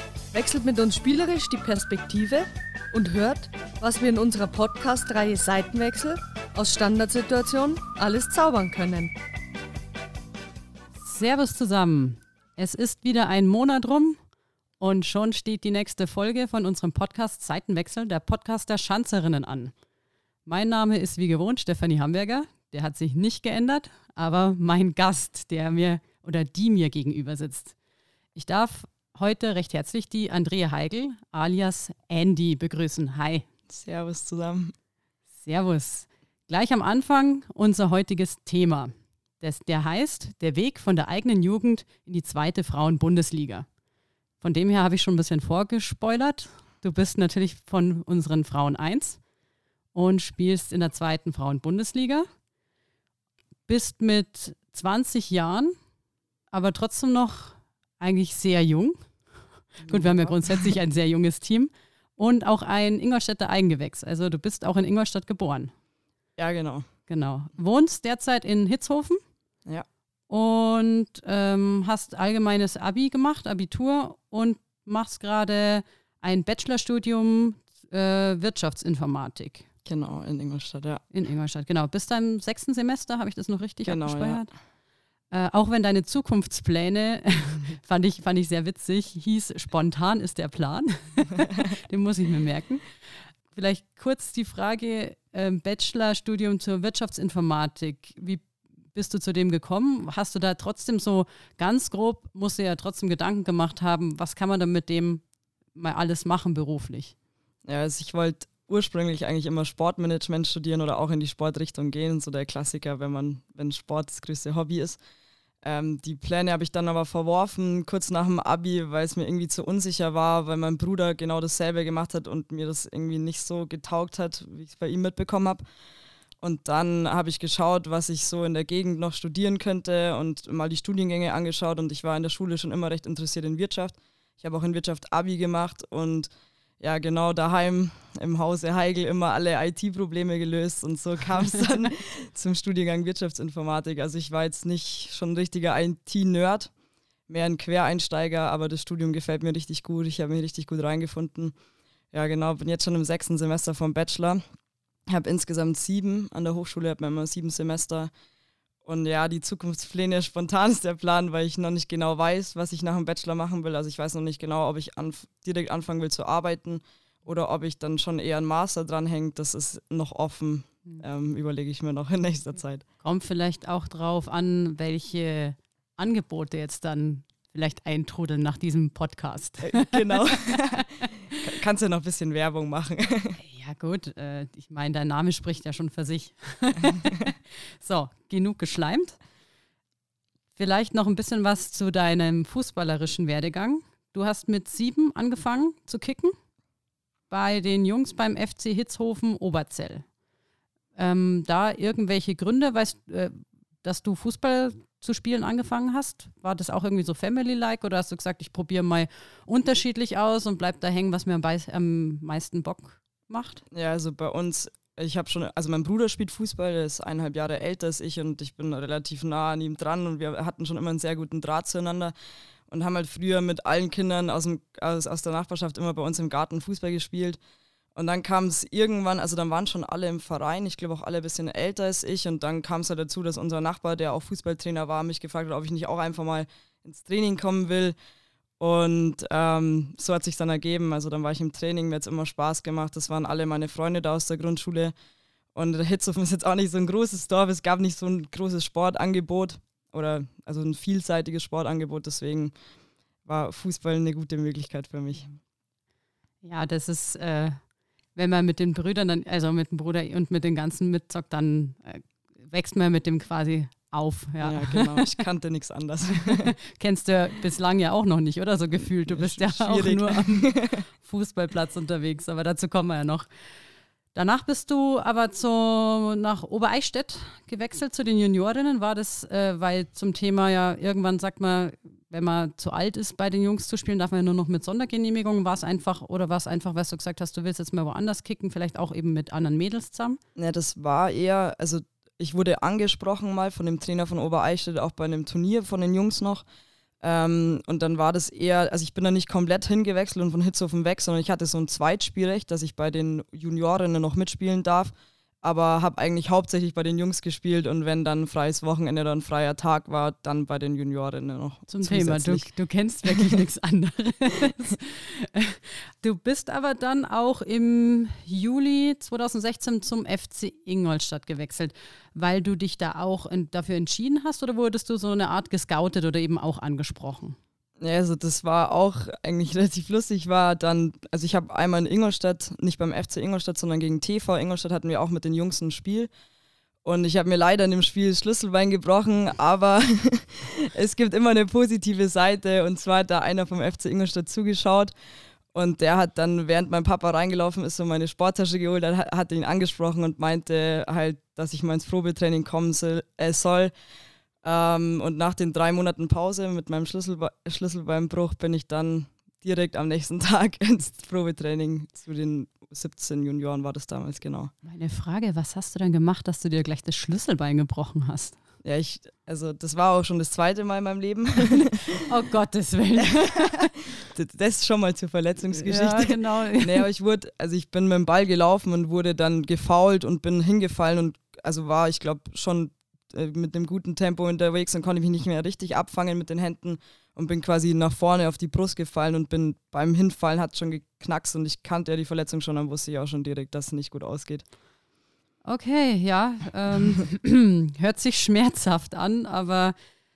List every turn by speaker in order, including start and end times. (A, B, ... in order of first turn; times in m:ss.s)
0:00.3-0:09.1 A
0:11.0-0:14.2 B
0:14.8-0:19.7 B
0:20.5-0:27.8 B
0:28.4-0:33.5 B
0:33.7-0:34.7 C
0:35.4-0:43.7 B
0:44.4-0:49.2 B
0:49.9-0:52.3 B
0:53.7-0:55.8 B
0:56.5-0:59.0 B
0:59.8-1:00.4 C
0:59.8-1:05.7 B
1:06.4-1:06.9 C
1:07.1-1:09.2 B
1:10.3-1:19.7 B
1:19.8-1:21.0 C
1:21.1-1:24.5 B
1:23.8-1:24.4 C
1:25.3-1:32.8 B
1:33.5-1:45.2 B
1:45.8-1:47.1 B
1:47.6-1:55.0 C
1:55.6-2:05.6 C
2:06.4-2:26.7 C
2:27.3-2:31.6 C
2:32.1-2:34.4 C
2:35.1-2:38.1 C
2:38.8-2:52.8 C
2:53.0-3:01.1 B
2:59.6-3:03.4 C
3:03.4-3:09.2 B
3:10.6-3:16.4 B
3:17.3-3:20.0 B
3:21.0-3:33.6 B
3:33.7-3:42.1 C
3:42.7-3:47.4 C
3:48.0-3:58.0 C
3:58.6-4:04.9 C
4:05.6-4:12.5 C
4:13.3-4:15.3 C
4:16.4-4:17.6 B
4:18.2-4:25.1 B
4:24.4-4:26.6 C
4:26.3-4:33.3 B
4:29.1-4:30.8 C
4:34.1-4:50.2 B
4:50.4-4:56.4 C
4:57.0-5:12.5 C
5:11.7-5:27.4 B
5:13.1-5:13.4 C
5:27.8-5:36.1 C
5:36.8-5:44.9 C
5:45.5-5:53.7 C
5:54.4-6:04.5 C
6:04.6-6:08.4 B
6:08.6-6:12.0 C
6:11.9-6:13.7 B
6:13.0-6:34.4 C
6:15.6-6:16.8 B
6:35.4-6:39.8 B